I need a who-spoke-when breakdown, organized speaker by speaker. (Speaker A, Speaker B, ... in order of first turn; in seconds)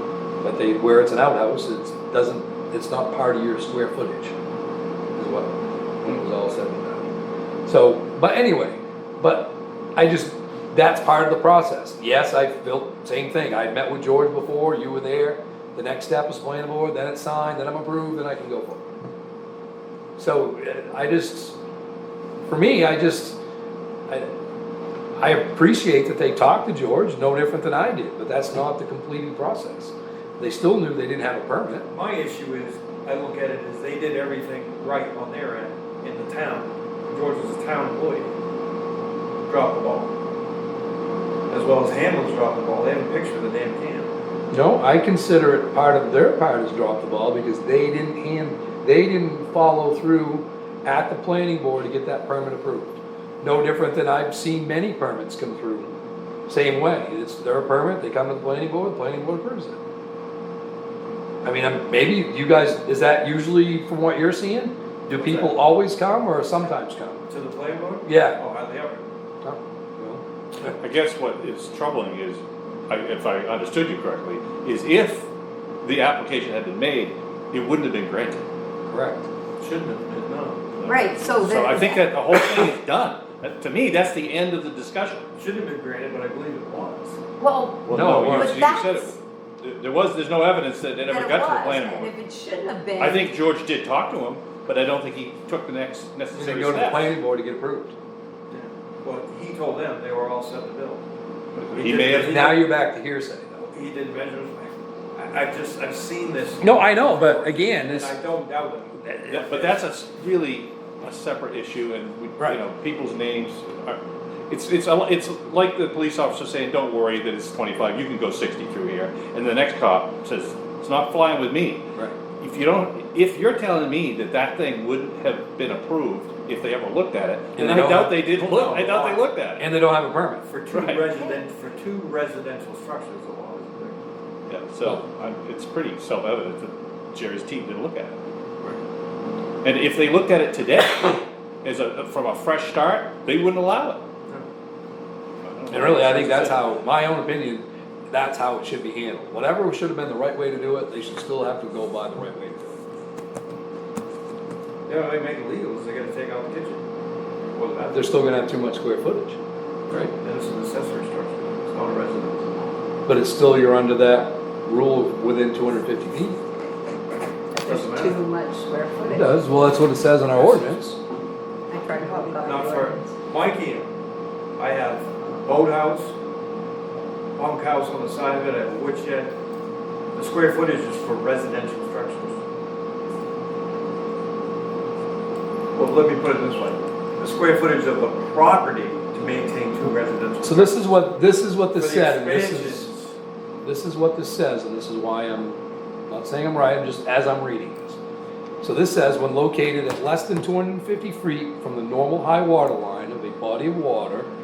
Speaker A: 0.4-4.3, 5.2-5.5, 6.0-7.1, 7.7-18.8, 20.2-21.6, 22.5-23.4, 25.2-31.9, 44.5-55.9, 56.5-59.8, 61.4-67.2, 68.0-68.4, 69.4-70.7, 78.9-79.3, 87.9-88.6, 96.3-97.9, 102.2-103.7, 106.6-108.2, 109.0-109.4, 127.5-130.4, 145.7-152.8, 157.9-159.4, 163.1-166.4, 169.0-171.0, 190.4-192.9, 193.6-198.0, 198.6-204.3
Speaker B: 31.9-38.3, 39.5-40.1, 41.5-44.1, 65.1-65.6, 67.3-69.0, 79.6-80.7, 85.3-87.2, 98.5-101.0, 101.6-102.5, 103.7-109.8, 130.4-134.0, 154.9-156.8, 157.4-158.3, 159.9-162.5, 167.6-168.2, 170.3-170.8, 172.3-173.9, 174.6-176.1, 177.4-179.3, 180.1-182.4, 185.7-190.8, 191.7-193.1
Speaker C: 70.8-75.3, 75.8-78.4, 80.8-85.2, 87.8-92.1, 93.0-97.2, 101.6-102.5, 109.3-121.8, 122.4-129.6, 130.7-131.0, 134.5-138.2, 139.6-144.0, 145.4-146.6
Speaker D: 80.8-82.0, 87.4-89.2, 91.0-93.3, 167.5-169.4, 171.7-173.1